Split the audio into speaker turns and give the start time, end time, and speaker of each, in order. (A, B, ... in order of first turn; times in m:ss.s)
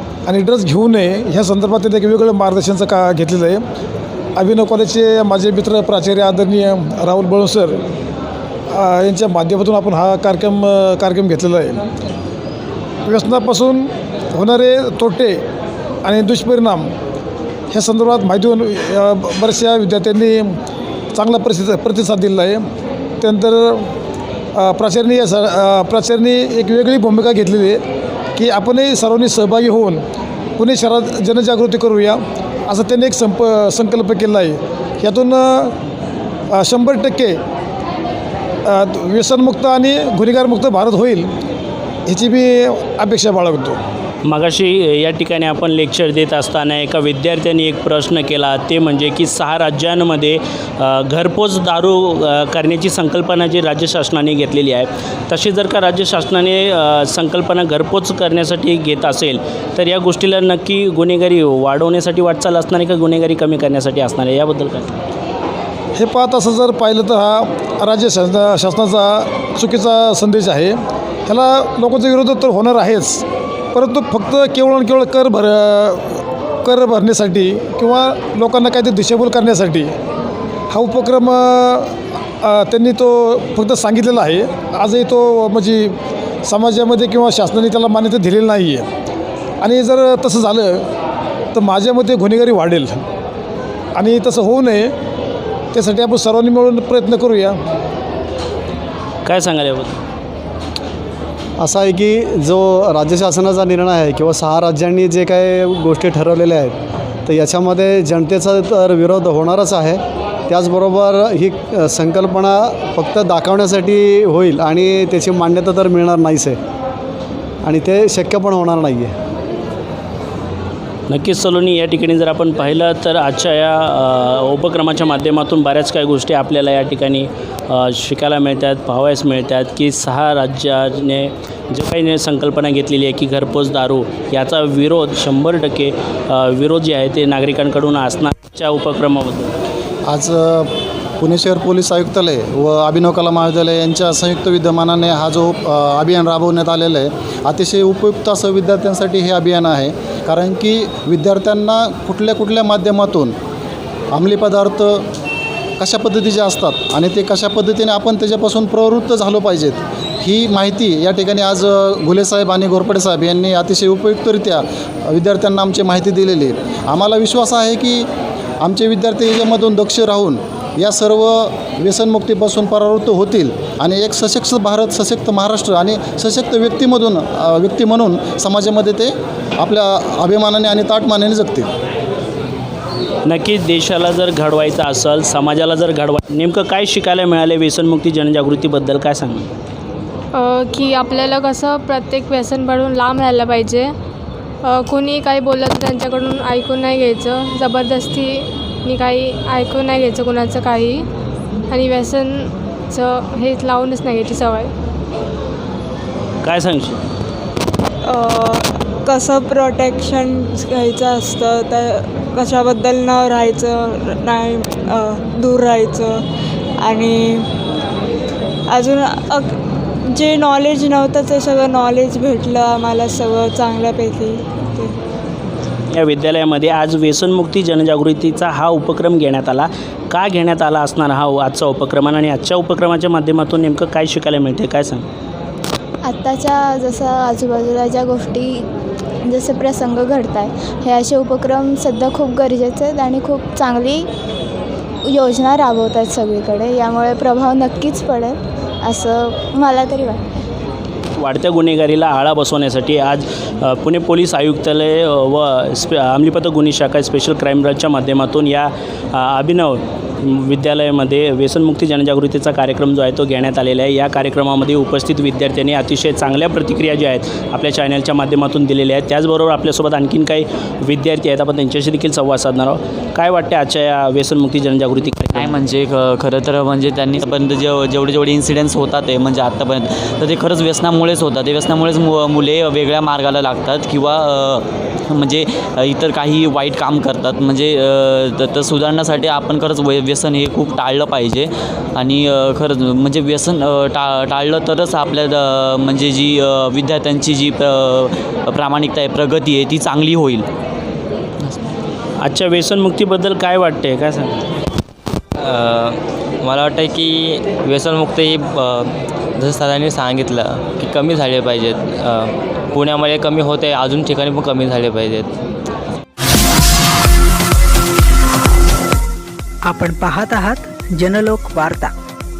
0:00.2-0:03.6 A
0:04.4-0:07.8 A
0:08.7-0:11.8 A
0:13.0-0:15.4 A
0:16.0-0:16.9 A
0:17.7-0:20.5 A
0:21.1-0:22.6 A
0:23.2-0:23.9 A
0:24.6-0:27.8 A
0:28.4-0:30.0 A
0:30.6-0:35.7 A
0:36.5-0:37.4 A
0:38.6-0:41.3 A
0:42.1-0:43.8 A
0:44.2-1:05.0 B
1:05.9-1:19.9 A
1:20.7-1:28.9 A
1:29.6-1:30.8 A
1:31.5-1:33.0 A
1:33.9-1:34.9 A
1:35.7-1:37.6 A
1:39.2-1:40.0 B
1:41.6-1:46.7 C
1:47.2-1:56.6 C
1:57.6-1:59.1 C
2:01.1-2:19.5 B
2:20.1-2:20.7 D
2:21.2-2:33.3 D
2:34.1-2:35.0 D
2:35.8-2:48.1 D
2:48.6-3:01.7 D
3:03.2-3:09.4 B
3:10.3-3:13.9 E
3:14.6-3:21.0 E
3:21.7-3:24.7 E
3:26.4-3:27.0 B
3:28.0-3:36.2 F
3:36.8-3:37.5 F
3:38.7-3:45.0 F
3:45.9-3:55.0 B
3:56.0-3:58.6 G
3:59.3-4:04.1 G
4:05.1-4:10.2 G
4:11.2-4:35.6 B
4:35.3-5:00.4 H
5:02.2-5:04.4 B
5:05.4-5:15.3 I
5:19.6-5:21.9 J